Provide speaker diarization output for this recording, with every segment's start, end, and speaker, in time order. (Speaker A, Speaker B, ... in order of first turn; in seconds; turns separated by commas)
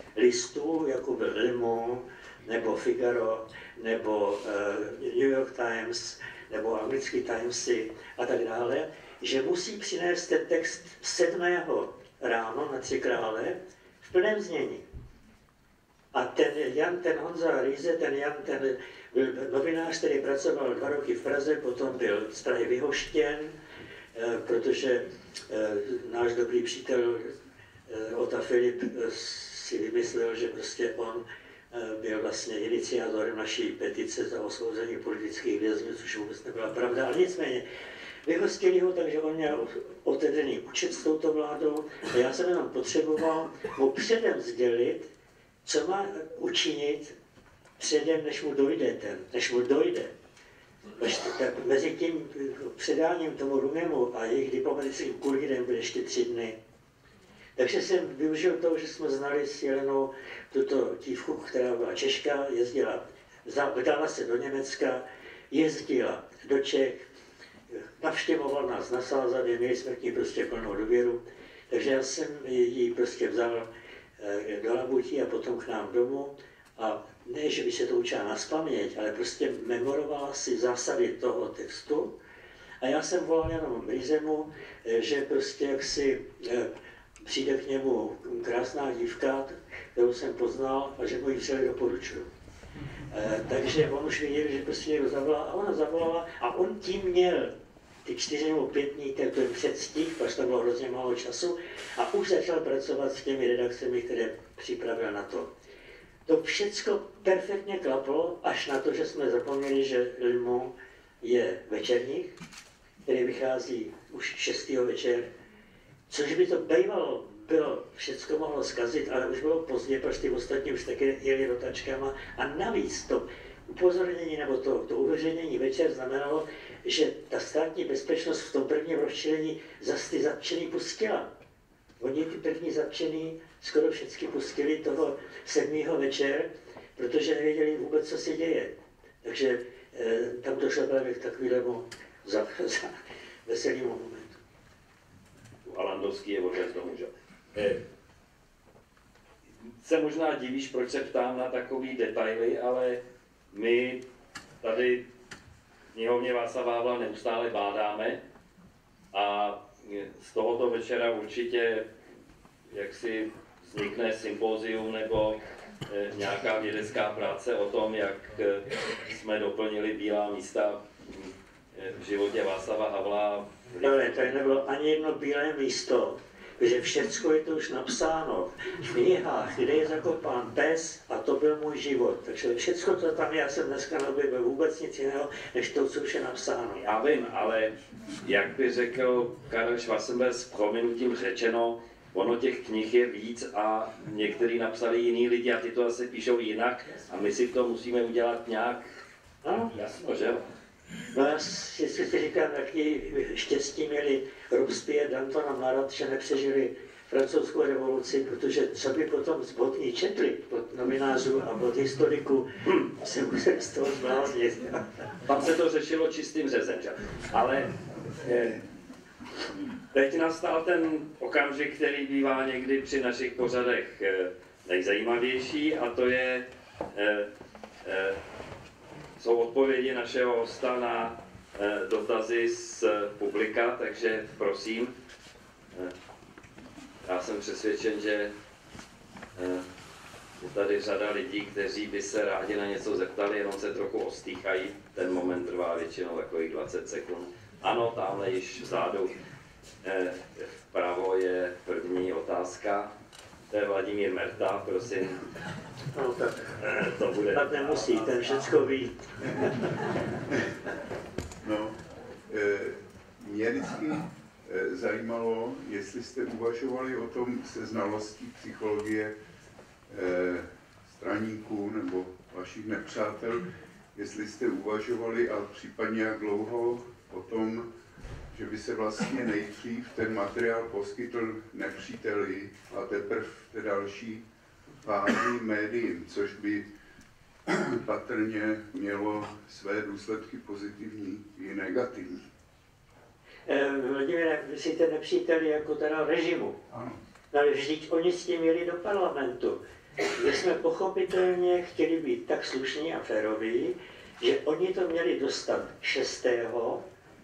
Speaker A: 0.1-14.8, Speaker A: 16.1-23.5, Speaker A: 24.1-27.3, Speaker A: 27.9-37.6, Speaker A: 38.2-45.1, Speaker A: 45.6-47.1, Speaker A: 47.8-50.1, Speaker A: 51.0-56.5, Speaker A: 57.6-67.1, Speaker A: 67.7-82.1, Speaker A: 82.8-86.7, Speaker A: 87.2-92.3, Speaker A: 93.1-97.5, Speaker A: 98.0-105.5, Speaker A: 106.3-112.3, Speaker A: 113.0-115.3, Speaker A: 116.1-131.3, Speaker A: 132.0-144.4, Speaker B: 145.6-147.8, Speaker B: 149.7-154.0, Speaker B: 154.6-155.1, Speaker B: 155.9-158.2, Speaker B: 159.1-161.9, Speaker B: 162.7-174.3, Speaker A: 173.8-186.8, Speaker B: 186.8-198.9, Speaker A: 199.4-199.7, Speaker B: 199.7-200.4, Speaker A: 201.1-214.9, Speaker B: 215.2-218.6, Speaker B: 219.9-227.3, Speaker B: 227.8-228.2, Speaker B: 229.2-234.9, Speaker B: 237.0-238.3, Speaker B: 239.3-239.6, Speaker B: 240.4-249.1, Speaker B: 249.8-252.9, Speaker B: 253.5-255.2, Speaker A: 255.9-256.4, Speaker B: 256.6-258.3, Speaker A: 257.3-259.4, Speaker C: 261.4-261.8, Speaker C: 262.3-269.1, Speaker C: 269.9-277.7, Speaker C: 278.3-284.2, Speaker C: 284.8-286.7, Speaker C: 287.5-292.2, Speaker A: 293.5-296.6, Speaker A: 297.3-299.6, Speaker A: 300.1-306.8